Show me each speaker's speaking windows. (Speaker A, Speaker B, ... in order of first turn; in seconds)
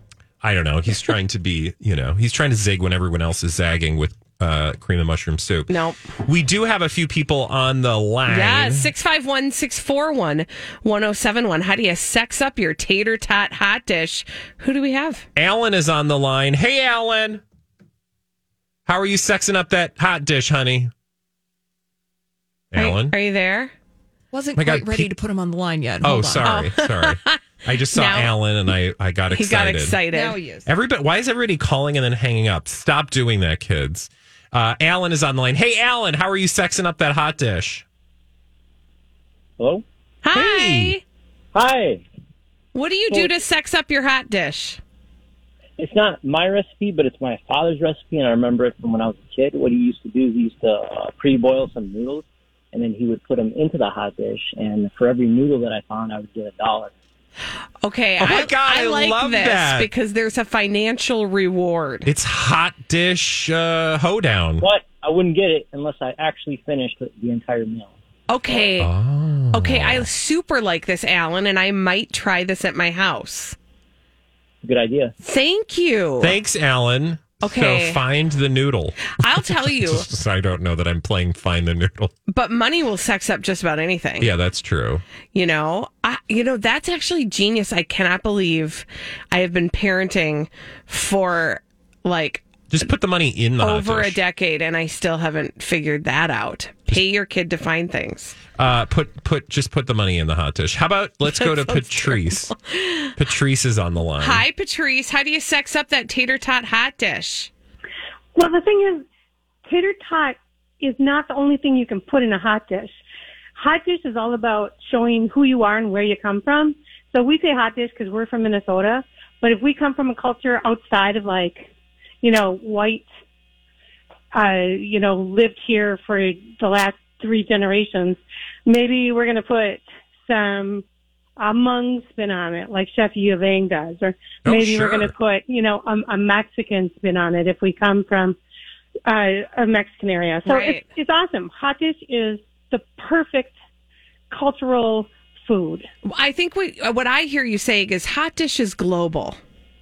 Speaker A: 0.4-8.9, 15.3-17.4, 18.9-20.9, 22.7-23.1, 24.6-25.1, 26.0-30.0, 30.6-37.8, 40.3-41.0, 58.2-59.9, 62.0-64.7, 68.8-70.1, 76.2-82.1, 84.2-85.0, 92.7-94.2, 98.5-102.5, 103.2-104.4, 134.4-135.1
Speaker B: 5.7-6.0, 8.2-15.2, 22.7-23.7, 26.4-28.3, 29.3-30.4, 40.2-41.0, 42.7-44.8, 57.8-62.1, 68.3-68.9, 69.5-73.5, 75.2-76.3, 77.4-78.0, 79.2-80.1, 82.3-84.3, 85.3-92.5, 93.6-98.4, 101.3-103.1, 104.2-107.5, 140.4-140.8, 146.0-149.4
Speaker C: 24.3-26.5, 30.1-30.7
Speaker D: 39.6-39.8, 41.5-42.0, 45.8-56.9, 64.6-67.9, 74.6-75.1
Speaker E: 108.3-109.1, 109.7-113.0, 113.5-121.7, 122.2-123.1, 124.3-130.8, 131.4-138.4, 139.1-143.5, 144.3-145.8